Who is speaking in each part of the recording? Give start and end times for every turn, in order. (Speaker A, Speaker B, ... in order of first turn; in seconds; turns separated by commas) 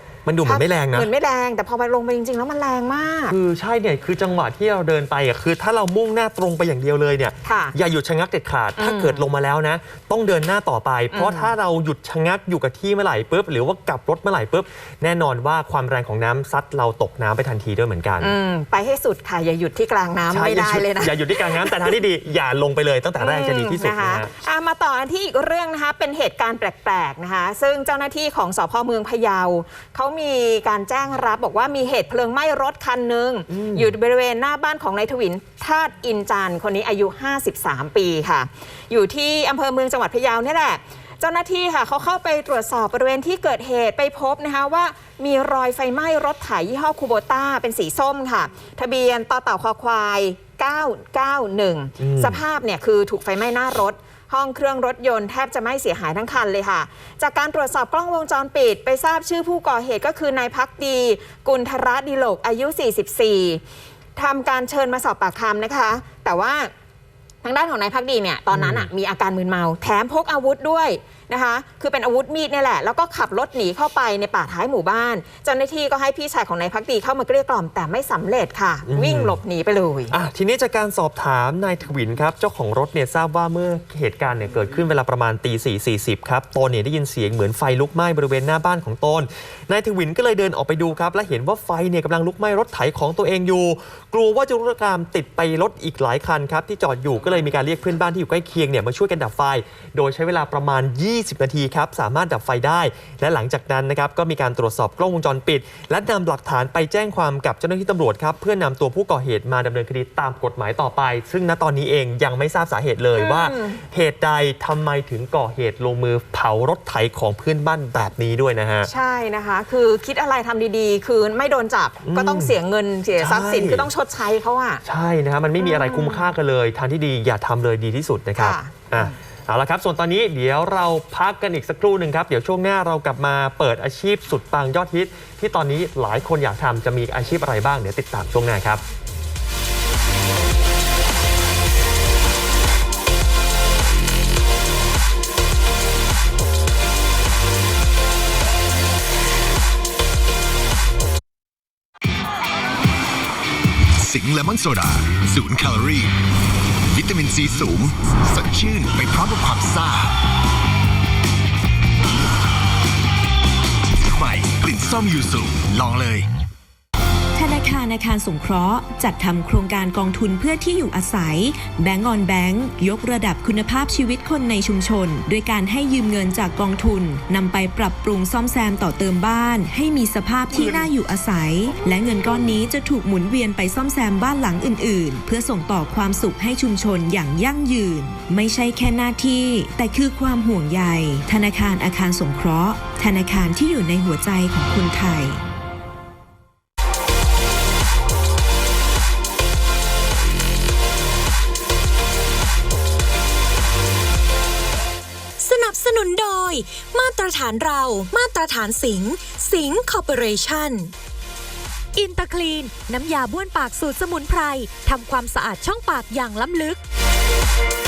Speaker A: 0.3-1.1, Speaker B: 0.4-3.4, Speaker A: 3.3-18.3, Speaker B: 7.4-7.8, Speaker B: 8.8-9.2, Speaker B: 11.1-11.5, Speaker B: 18.2-21.9, Speaker A: 20.3-24.3, Speaker B: 23.2-63.6, Speaker A: 33.5-33.9, Speaker A: 52.0-52.4, Speaker B: 64.2-66.7, Speaker B: 67.4-80.2, Speaker A: 68.5-68.9, Speaker A: 78.9-79.4, Speaker A: 80.1-118.9, Speaker B: 113.2-113.8, Speaker B: 118.9-124.8, Speaker A: 122.0-122.6, Speaker A: 123.2-123.9, Speaker A: 124.8-138.8, Speaker B: 125.6-126.2, Speaker B: 128.4-129.2, Speaker C: 154.0-156.1, Speaker C: 156.8-160.2, Speaker C: 164.0-166.3, Speaker D: 167.3-195.4, Speaker E: 205.4-210.9, Speaker E: 212.0-216.8